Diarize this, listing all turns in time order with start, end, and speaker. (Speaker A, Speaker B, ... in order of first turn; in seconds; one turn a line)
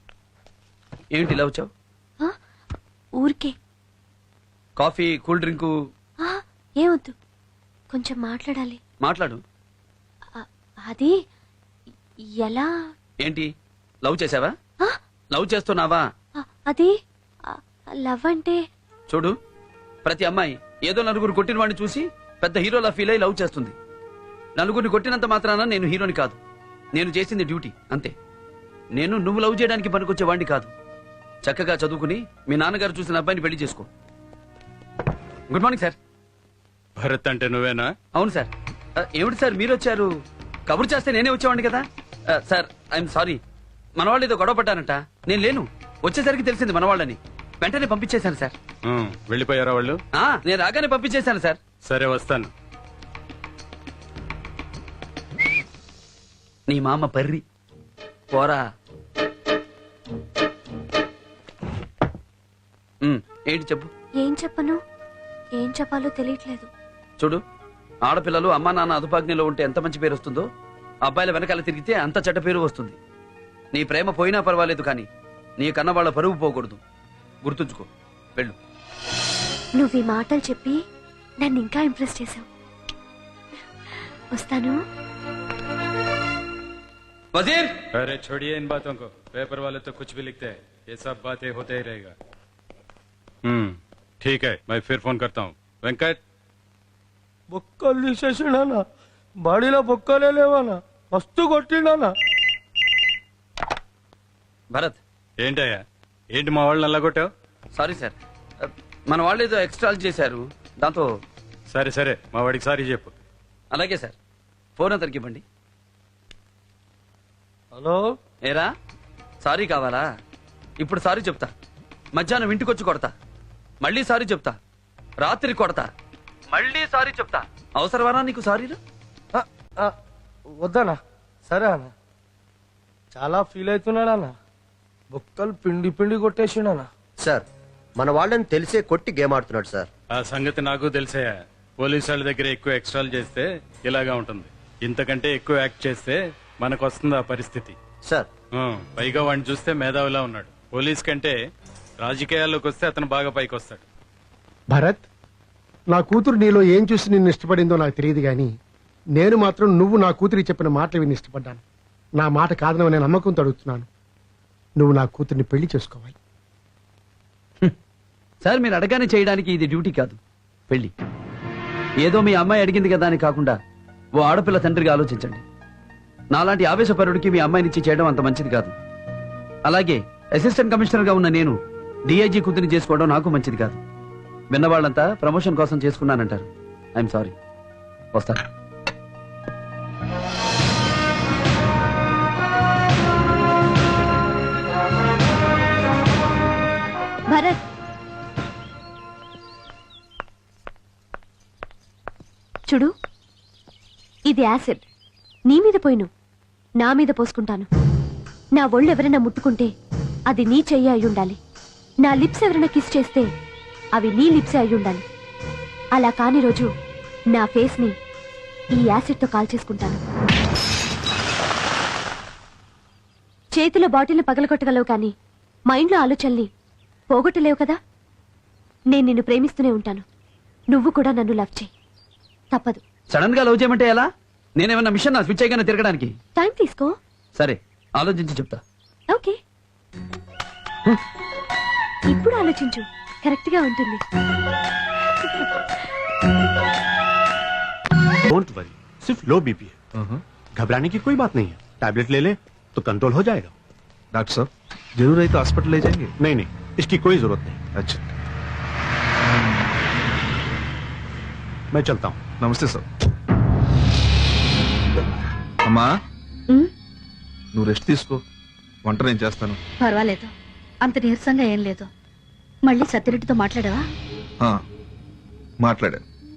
Speaker A: 1.1-1.7
Speaker B: 3.1-3.5
Speaker A: 4.8-5.7
Speaker B: 6.2-7.2
Speaker B: 7.9-8.8
Speaker A: 9.0-9.4
Speaker B: 10.3-11.2
Speaker B: 12.4-12.9
Speaker A: 14.0-14.5
Speaker A: 15.3-16.0
Speaker B: 16.4-16.9
Speaker B: 17.5-18.6
Speaker A: 20.1-23.8
Speaker A: 24.6-26.4
Speaker A: 26.9-28.1
Speaker A: 28.9-30.7
Speaker A: 31.4-33.9
Speaker A: 35.5-36.0
Speaker C: 37.0-37.9
Speaker A: 38.1-40.1
Speaker A: 40.7-41.9
Speaker A: 42.4-43.4
Speaker A: 44.0-48.5
Speaker C: 48.9-50.0
Speaker A: 50.2-51.6
Speaker C: 51.9-52.5
Speaker A: 56.7-57.4
Speaker A: 58.3-58.6
Speaker A: 63.0-63.9
Speaker B: 64.2-64.8
Speaker B: 65.5-66.7
Speaker A: 68.1-70.5
Speaker A: 71.0-73.0
Speaker A: 73.7-75.1
Speaker A: 75.6-76.8
Speaker A: 77.4-78.5
Speaker B: 79.8-80.8
Speaker B: 81.4-82.5
Speaker B: 84.3-84.8
Speaker A: 87.3-87.7
Speaker C: 88.0-92.1
Speaker C: 93.5-96.2
Speaker D: 97.5-98.8
Speaker D: 99.4-102.1
Speaker A: 104.7-105.0
Speaker C: 105.4-105.8
Speaker C: 106.3-107.3
Speaker A: 107.8-111.1
Speaker C: 111.7-113.2
Speaker A: 113.7-114.2
Speaker A: 114.8-115.4
Speaker D: 117.8-118.1
Speaker A: 118.4-118.7
Speaker A: 119.4-120.0
Speaker A: 120.8-121.5
Speaker A: 122.2-123.1
Speaker A: 123.8-124.6
Speaker A: 125.2-125.9
Speaker A: 126.5-128.8
Speaker D: 129.3-129.9
Speaker D: 130.6-131.0
Speaker D: 131.5-131.9
Speaker D: 133.1-134.3
Speaker D: 135.1-136.9
Speaker E: 137.2-137.4
Speaker E: 138.0-139.9
Speaker C: 140.2-147.8
Speaker C: 148.6-151.4
Speaker C: 152.0-153.8
Speaker F: 154.7-155.1
Speaker F: 155.9-158.5
Speaker F: 159.2-161.6
Speaker F: 162.2-163.9
Speaker F: 164.8-166.2
Speaker A: 168.4-170.2
Speaker A: 172.0-173.6
Speaker A: 174.2-175.4
Speaker A: 176.3-178.7
Speaker A: 179.7-181.6
Speaker A: 182.1-183.8
Speaker A: 184.5-187.3
Speaker A: 188.2-188.4
Speaker B: 197.3-197.6
Speaker B: 204.3-204.8
Speaker B: 205.5-206.1
Speaker B: 206.8-207.7
Speaker B: 208.6-209.7
Speaker B: 210.3-211.4
Speaker B: 212.0-213.3
Speaker B: 213.9-215.1
Speaker B: 215.9-216.7
Speaker B: 217.3-218.0
Speaker B: 218.7-220.0
Speaker B: 223.5-225.1
Speaker B: 225.7-226.5
Speaker B: 227.1-227.8
Speaker B: 228.9-230.1
Speaker B: 230.7-231.7
Speaker B: 232.5-232.8
Speaker A: 233.1-234.1
Speaker A: 234.6-236.1
Speaker B: 236.4-236.9
Speaker A: 237.4-238.6
Speaker B: 239.1-239.4
Speaker B: 242.1-244.0
Speaker B: 245.2-245.7
Speaker G: 248.4-249.7
Speaker G: 250.6-253.5
Speaker H: 254.1-256.1
Speaker G: 256.3-257.6
Speaker H: 257.8-258.0
Speaker H: 259.3-259.7
Speaker G: 261.8-262.1
Speaker H: 262.4-262.9
Speaker H: 267.5-268.2
Speaker H: 268.9-269.6
Speaker I: 269.8-271.9
Speaker I: 272.6-273.9
Speaker H: 275.6-276.1